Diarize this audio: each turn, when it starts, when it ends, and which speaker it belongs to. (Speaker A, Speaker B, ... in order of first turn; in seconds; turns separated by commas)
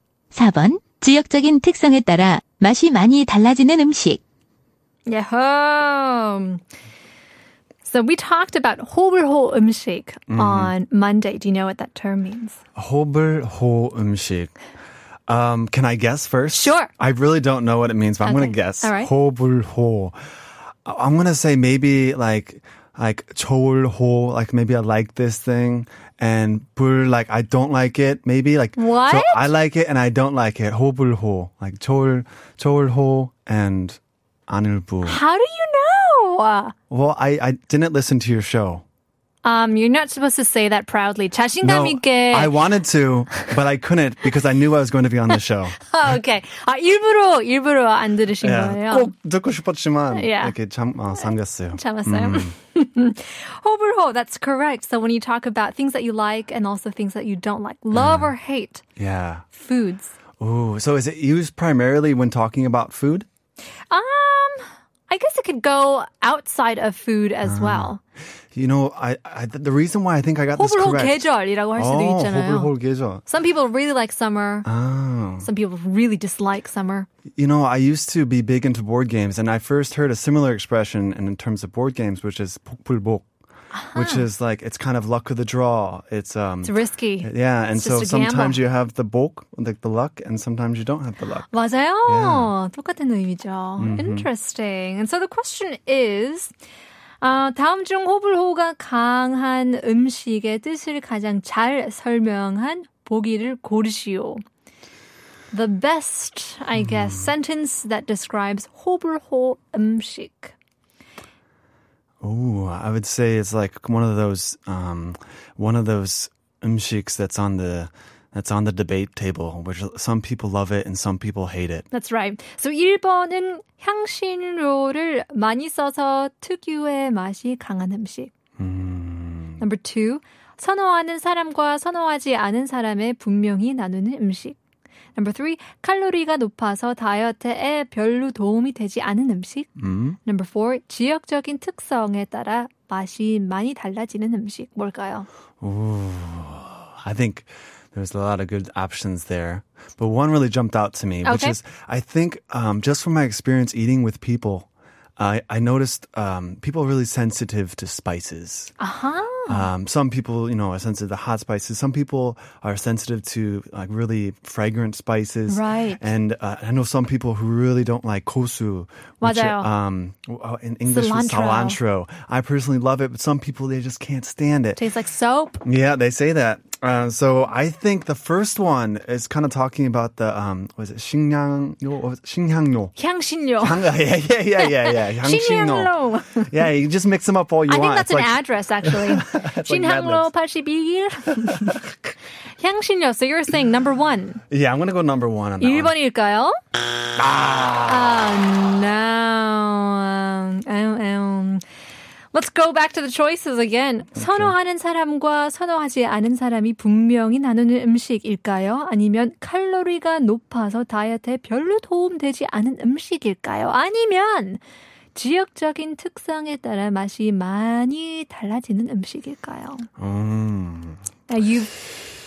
Speaker A: 0.3-4.2, Speaker B: 5.0-6.6, Speaker B: 7.8-12.6, Speaker C: 10.3-10.7, Speaker C: 12.8-14.5, Speaker C: 15.3-20.1, Speaker B: 16.5-16.9, Speaker B: 18.2-19.1, Speaker C: 20.8-35.2, Speaker B: 28.8-29.5, Speaker B: 35.0-36.7, Speaker C: 36.9-38.8, Speaker B: 39.4-42.6, Speaker C: 41.6-45.9, Speaker B: 45.9-49.1, Speaker C: 48.4-52.5, Speaker B: 50.1-50.5, Speaker B: 51.1-58.8, Speaker C: 57.9-58.3, Speaker C: 59.0-59.5, Speaker B: 59.5-60.1, Speaker C: 60.4-63.3, Speaker B: 63.9-68.0, Speaker C: 67.4-67.9, Speaker C: 68.5-73.2, Speaker B: 70.5-72.7, Speaker B: 73.2-74.7, Speaker C: 74.6-75.5, Speaker B: 75.4-77.1, Speaker C: 77.3-83.3, Speaker B: 83.7-84.2, Speaker C: 83.9-91.5, Speaker B: 86.6-88.6, Speaker B: 91.5-96.5, Speaker C: 92.0-92.5, Speaker C: 93.8-94.3, Speaker B: 97.2-104.4, Speaker B: 105.5-110.5, Speaker C: 106.7-107.3, Speaker C: 112.2-121.8, Speaker B: 121.9-128.3, Speaker C: 128.6-129.6, Speaker B: 129.6-134.6, Speaker B: 135.2-139.7, Speaker C: 139.8-140.2, Speaker B: 140.2-145.3, Speaker C: 145.6-158.7, Speaker B: 151.2-151.6, Speaker B: 158.8-159.7, Speaker C: 159.5-174.8, Speaker B: 165.5-166.0, Speaker B: 169.2-169.7, Speaker B: 170.8-171.8, Speaker B: 174.8-175.6, Speaker C: 175.6-182.9, Speaker B: 182.9-183.9, Speaker C: 183.6-190.3, Speaker B: 184.6-186.7, Speaker B: 187.7-191.9, Speaker B: 192.6-194.4, Speaker C: 194.5-195.9, Speaker B: 195.6-196.5, Speaker C: 197.2-198.4, Speaker B: 197.9-201.6, Speaker B: 202.3-214.6, Speaker C: 204.1-204.6, Speaker B: 215.1-219.9, Speaker C: 220.0-221.0, Speaker B: 221.3-221.7